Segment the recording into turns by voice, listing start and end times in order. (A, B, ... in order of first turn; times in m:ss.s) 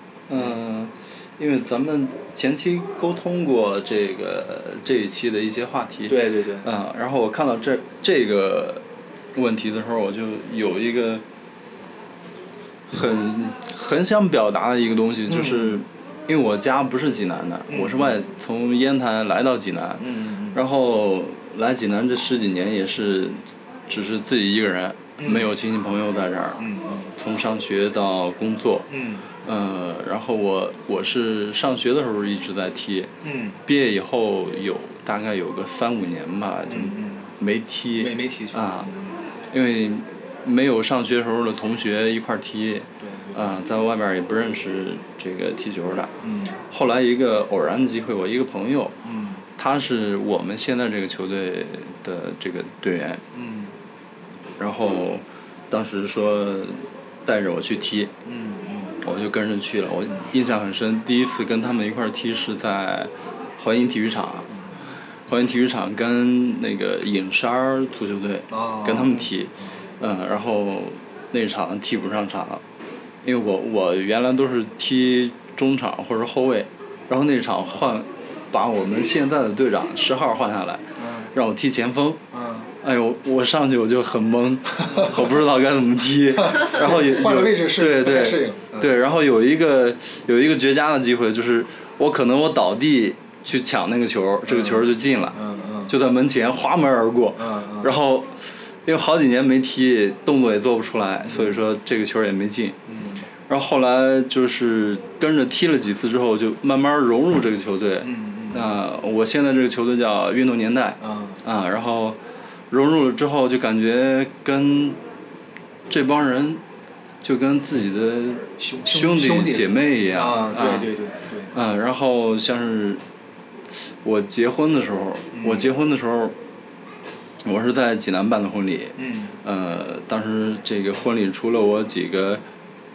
0:00.3-0:08.8 A
0:06.1-0:06.7 B
0:09.3-0:11.2 A
0:12.9-0:28.9 A
0:15.3-0:15.8 B
0:17.7-0:18.1 B
0:20.0-0:20.6 B
0:25.2-0:25.5 B
0:26.6-0:27.1 B
0:28.9-0:29.2 B
0:29.4-0:33.1 A
0:33.2-0:33.6 B
0:33.6-0:38.9 A
0:36.7-0:37.3 B
0:38.0-0:39.2 B
0:39.5-0:46.2 A
0:43.0-0:43.4 B
0:46.2-0:46.6 B
0:46.7-0:49.0 A
0:49.0-0:49.4 B
0:49.6-0:53.2 A
0:53.3-0:53.7 B
0:54.6-0:58.1 A
0:58.2-0:59.0 B
0:59.0-1:04.5 A
1:05.3-1:12.6 A
1:08.5-1:09.3 B
1:13.2-1:22.2 A
1:21.0-1:21.3 B
1:22.3-1:22.7 B
1:22.8-1:42.8 A
1:26.4-1:28.9 B
1:34.5-1:35.9 B
1:37.4-1:37.9 B
1:41.3-1:41.6 B
1:42.9-1:43.2 B
1:43.5-1:52.2 A
1:48.0-1:48.7 B
1:51.0-1:51.4 B
1:52.7-1:55.0 A
1:55.9-1:56.6 A
1:57.2-2:00.9 A
1:58.6-2:01.5 B
2:01.5-2:03.0 A
2:04.0-2:06.3 A
2:05.3-2:05.7 B
2:07.4-2:12.4 A
2:09.0-2:09.3 B